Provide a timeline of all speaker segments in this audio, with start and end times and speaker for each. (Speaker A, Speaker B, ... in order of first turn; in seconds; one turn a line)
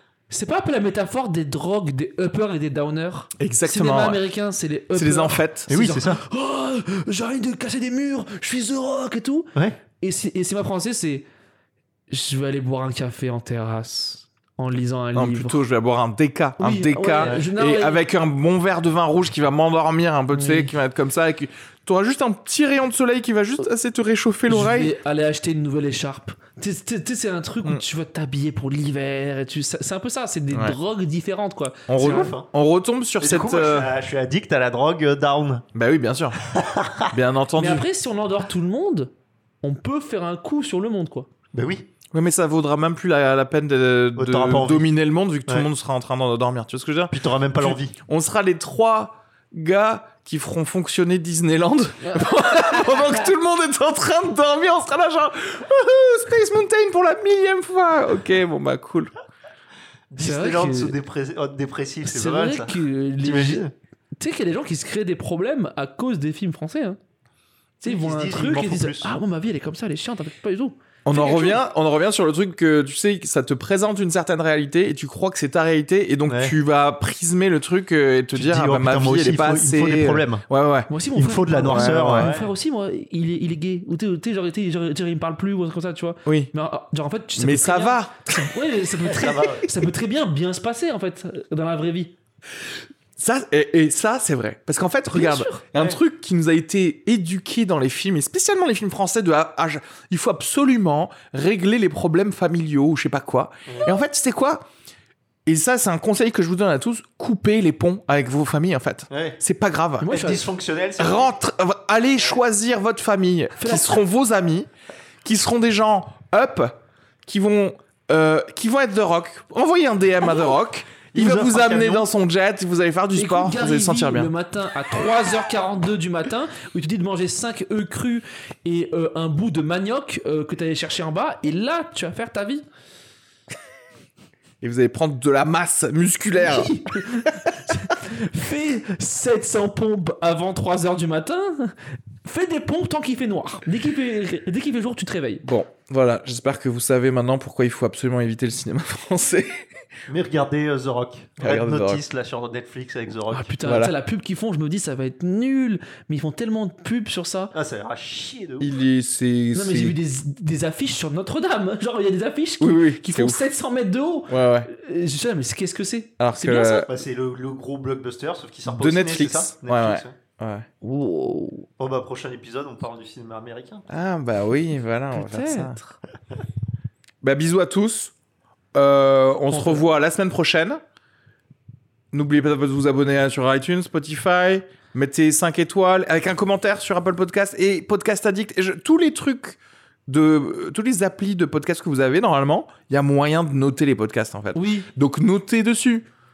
Speaker A: 0.3-11.3
Speaker B: 3.4-4.2
Speaker B: 5.0-5.7
Speaker C: 5.7-6.2
Speaker A: 12.1-15.6
Speaker B: 15.2-24.9
Speaker A: 16.6-18.1
Speaker A: 20.3-20.7
Speaker A: 24.5-32.3
Speaker B: 30.5-30.8
Speaker B: 31.9-33.9
Speaker C: 32.0-32.5
Speaker C: 33.2-35.6
Speaker B: 35.8-36.4
Speaker C: 36.5-37.1
Speaker B: 37.1-37.9
Speaker A: 37.6-39.1
Speaker A: 39.6-41.3
Speaker C: 41.5-41.9
Speaker B: 42.1-59.1
Speaker C: 44.2-44.9
Speaker C: 47.1-47.9
Speaker A: 52.0-53.3
Speaker C: 60.1-63.7
Speaker A: 60.2-60.9
Speaker A: 62.0-63.6
Speaker A: 64.2-67.0
Speaker A: 67.8-71.6
Speaker C: 67.8-69.2
Speaker B: 71.1-80.9
Speaker C: 76.3-76.5
Speaker C: 78.3-80.4
Speaker A: 80.9-92.1
Speaker C: 81.2-82.5
Speaker B: 81.7-82.3
Speaker B: 86.3-86.5
Speaker B: 87.4-88.5
Speaker C: 89.0-89.7
Speaker B: 93.2-104.6
Speaker A: 95.1-95.7
Speaker B: 105.5-110.1
Speaker C: 109.1-109.4
Speaker A: 110.0-110.4
Speaker C: 110.1-111.3
Speaker B: 111.0-114.7
Speaker A: 113.6-114.0
Speaker B: 115.2-124.3
Speaker C: 121.1-122.1
Speaker A: 123.2-132.7
Speaker B: 134.6-136.8
Speaker A: 136.4-145.4
Speaker B: 145.4-149.6
Speaker C: 150.1-153.5
Speaker B: 151.4-152.0
Speaker A: 153.3-157.5
Speaker B: 153.6-153.9
Speaker C: 157.5-158.7
Speaker B: 158.6-160.0
Speaker A: 159.5-166.9
Speaker B: 162.6-163.4
Speaker B: 164.3-164.7
Speaker B: 166.2-166.9
Speaker C: 166.9-170.2
Speaker B: 168.7-170.7
Speaker A: 170.8-171.7
Speaker C: 171.8-173.9
Speaker B: 173.9-175.9
Speaker A: 175.1-175.8
Speaker B: 177.2-178.1
Speaker B: 178.8-180.8
Speaker A: 179.5-179.9
Speaker B: 182.1-196.1
Speaker A: 194.6-194.9